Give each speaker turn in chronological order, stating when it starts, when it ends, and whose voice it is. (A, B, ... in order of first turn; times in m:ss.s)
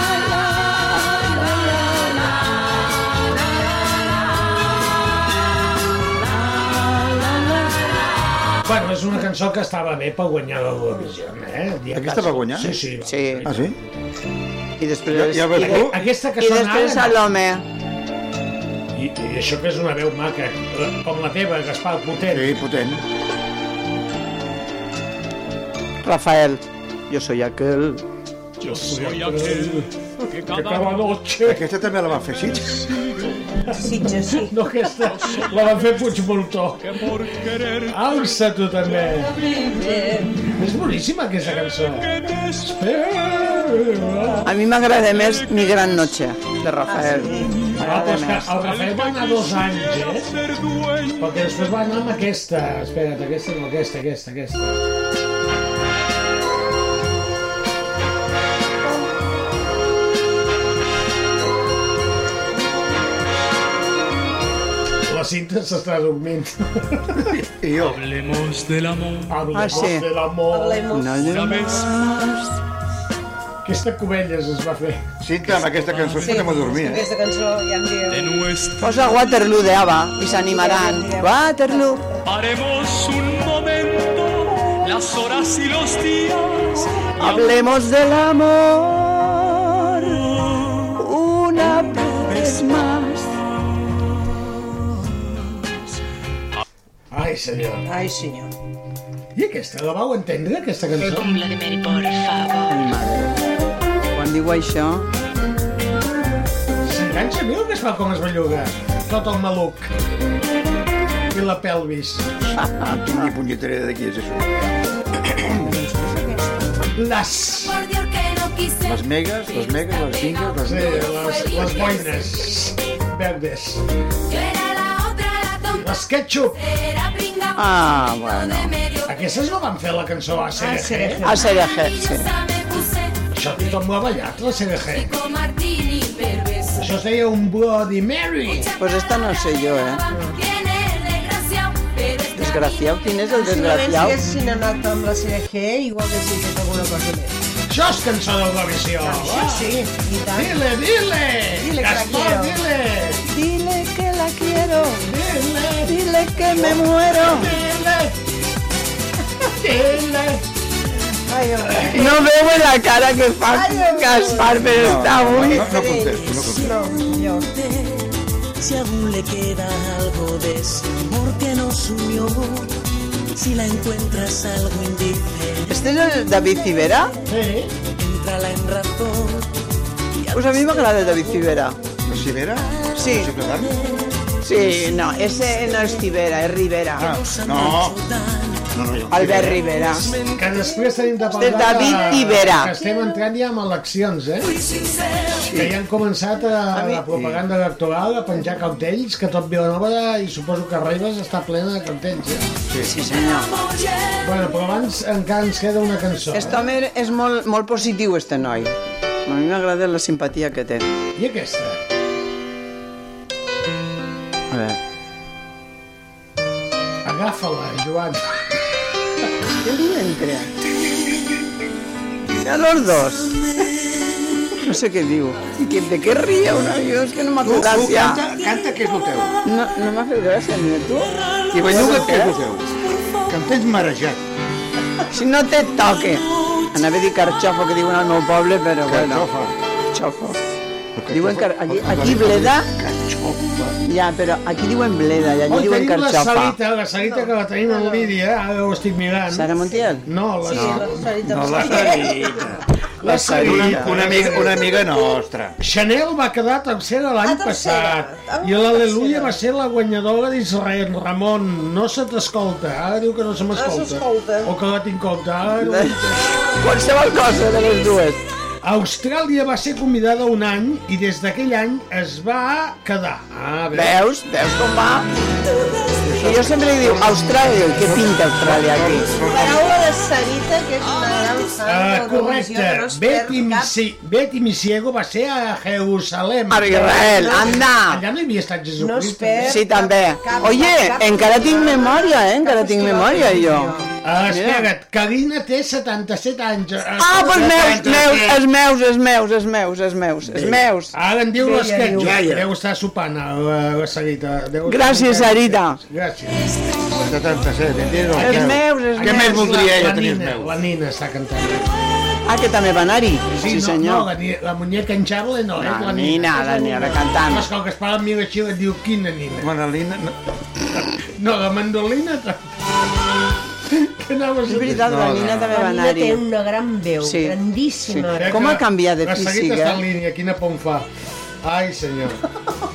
0:08.6-0:13.8 A
0:11.9-0:12.8 B
0:13.0-0:13.5 C
0:13.4-0:13.8 B
0:14.8-0:17.6 C
0:15.1-0:16.0 B
0:15.6-0:17.2 A
0:18.9-0:22.6 A
0:22.3-0:23.0 B
0:26.0-0:28.0 C
0:28.6-0:29.9 A
0:28.7-0:31.2 D
0:30.4-0:31.6 A
0:31.4-0:33.1 B
0:33.7-0:34.6 E
0:34.4-0:37.0 A
0:35.1-0:35.8 D
0:36.8-0:38.2 D
0:37.9-0:39.4 A
0:39.8-0:40.2 E
0:40.5-0:44.5 A
0:41.7-0:42.8 D
0:44.4-0:48.5 C
0:45.0-0:46.1 D
0:46.9-0:47.7 E
0:47.8-0:50.3 A
0:48.5-0:51.5 D
0:51.2-0:54.8 A
1:05.1-1:07.2 A
1:07.3-1:08.0 B
1:07.7-1:09.5 D
1:09.3-1:11.0 A
1:09.5-1:10.1 C
1:10.5-1:11.9 E
1:10.9-1:11.9 C
1:11.2-1:12.4 D
1:13.6-1:15.1 A
1:15.2-1:17.1 B
1:15.6-1:16.6 D
1:16.2-1:18.3 E
1:18.1-1:19.3 D
1:18.8-1:22.0 C
1:20.2-1:22.0 E
1:22.2-1:27.6 D
1:27.2-1:30.2 C
1:31.0-1:33.3 C
1:37.1-1:37.9 A
1:37.9-1:38.5 E
1:39.4-1:41.4 A
1:41.2-1:42.7 F
1:42.7-1:43.3 C
1:44.1-1:45.1 C
1:46.8-1:49.9 A
1:51.3-1:52.3 A
1:52.4-1:54.7 B
1:52.6-1:53.3 C
1:55.2-1:55.7 B
1:57.0-1:57.8 A
1:57.7-2:02.4 F
1:58.8-2:01.0 B
2:00.6-2:03.8 A
2:04.3-2:05.8 F
2:05.8-2:06.6 A
2:06.7-2:07.6 F
2:07.6-2:08.8 C
2:08.3-2:09.1 F
2:09.1-2:11.2 A
2:10.6-2:11.5 E
2:11.2-2:12.3 C
2:11.6-2:13.2 F
2:13.3-2:15.1 A
2:15.0-2:16.8 F
2:16.8-2:18.7 A
2:18.5-2:23.2 F
2:18.8-2:20.0 C
2:20.1-2:20.4 E
2:22.3-2:24.2 C
2:23.3-2:27.4 E
2:27.7-2:29.7 A
2:29.0-2:30.5 E
2:30.3-2:33.2 A
2:31.6-2:32.6 E
2:33.3-2:35.0 C
2:35.0-2:36.0 A
2:35.8-2:37.5 C
2:36.5-2:38.2 A
2:39.6-2:40.4 A
2:41.3-2:42.2 E
2:41.7-2:42.0 A
2:41.9-2:45.6 C
2:43.5-2:47.5 E
2:44.7-2:46.8 B
2:48.7-2:52.7 G
2:53.4-2:55.2 G
2:55.7-2:57.1 C
2:57.3-2:57.8 A
2:58.0-2:59.4 G
3:00.2-3:01.8 C
3:02.0-3:03.8 B
3:03.0-3:03.3 C
3:04.4-3:07.1 C
3:07.0-3:08.0 B
3:07.5-3:08.6 G
3:08.7-3:09.7 B
3:09.1-3:10.2 C
3:10.3-3:14.6 A
3:10.6-3:13.2 E
3:11.4-3:12.7 C
3:15.4-3:15.8 B
3:15.5-3:22.5 A
3:16.7-3:17.0 C
3:17.0-3:17.4 B
3:22.7-3:23.0 B
3:22.8-3:23.5 C
3:23.1-3:24.1 F
3:24.2-3:26.7 A
3:26.3-3:28.8 C
3:29.3-3:30.9 C
3:31.2-3:31.8 A
3:34.5-3:34.8 C
3:37.0-3:38.3 A
3:39.6-3:40.5 C
3:42.4-3:43.4 C
3:44.6-3:48.2 C
3:47.4-3:49.4 B
3:49.4-3:52.4 C
3:51.5-3:54.2 B
3:55.1-3:59.2 C
3:58.9-3:59.6 B
3:59.9-4:00.4 C
4:01.0-4:03.8 B
4:01.1-4:02.7 C
4:03.8-4:06.6 C
4:05.5-4:09.5 A
4:07.0-4:08.1 E
4:09.3-4:10.1 C
4:10.0-4:11.5 A
4:10.4-4:12.6 E
4:10.5-4:12.6 B
4:13.0-4:14.7 A
4:13.0-4:14.4 C
4:13.3-4:15.6 B
4:15.6-4:26.4 A
4:17.2-4:19.4 E
4:23.6-4:24.5 E
4:25.6-4:26.0 C
4:26.6-4:28.2 C
4:28.6-4:34.0 A
4:33.7-4:35.1 C
4:36.0-4:39.7 B
4:36.2-4:39.2 C
4:39.2-4:43.7 E
4:41.6-4:49.6 A
4:46.5-4:48.0 C
4:46.7-4:47.6 E
4:48.8-4:53.9 E
4:49.4-4:53.7 C
4:54.0-4:57.9 A
4:54.3-4:54.7 C
4:57.0-5:00.9 C
4:57.2-4:58.4 B
5:00.3-5:00.7 B
5:00.9-5:06.5 A
5:01.4-5:02.2 E
5:02.0-5:02.5 B
5:04.7-5:05.8 C
5:07.0-5:10.6 B
5:08.1-5:11.7 A
5:08.1-5:09.6 C
5:12.3-5:14.1 C
5:13.4-5:19.5 A
5:15.6-5:17.5 C
5:19.4-5:20.2 B
5:21.0-5:22.4 A
5:23.8-5:25.0 A
5:24.5-5:26.2 C
5:24.6-5:25.5 B
5:25.5-5:28.5 E
5:27.0-5:29.8 C
5:28.1-5:30.9 A
5:31.4-5:32.2 A